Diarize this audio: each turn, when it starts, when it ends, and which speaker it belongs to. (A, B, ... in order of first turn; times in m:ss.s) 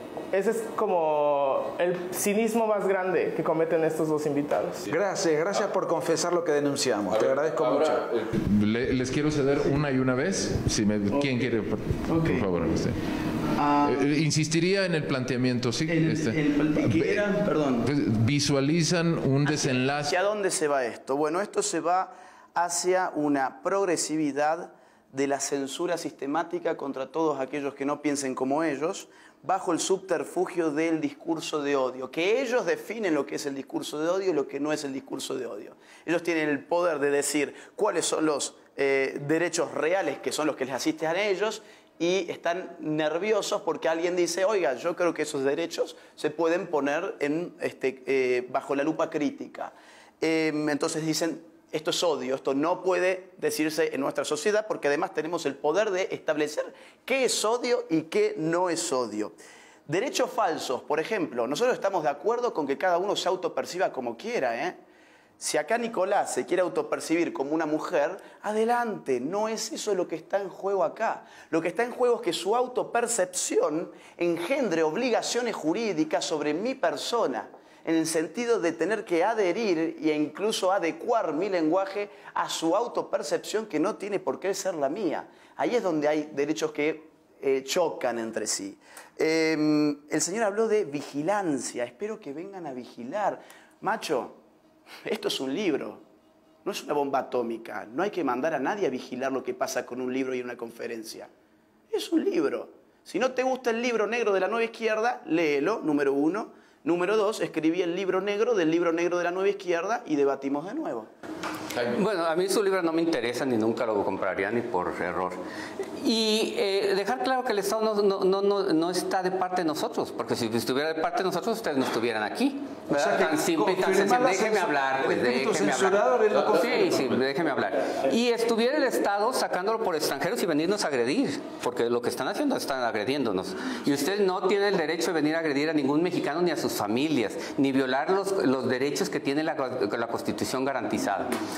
0:00.3-0:04.9 A
0:04.9-0:08.0 B
0:07.1-0:13.0 C
0:12.1-0:12.4 D
0:13.6-0:14.0 D
0:13.8-0:17.2 C
0:15.9-0:17.9 D
0:17.8-0:20.2 C
0:19.4-0:59.4 D
0:59.9-1:04.8 D
1:05.4-1:34.4 D
1:35.0-1:36.0 D
1:36.6-1:41.3 D
1:41.9-1:51.1 D
1:51.9-1:55.4 E
1:56.0-2:21.4 E
2:02.9-2:07.2 B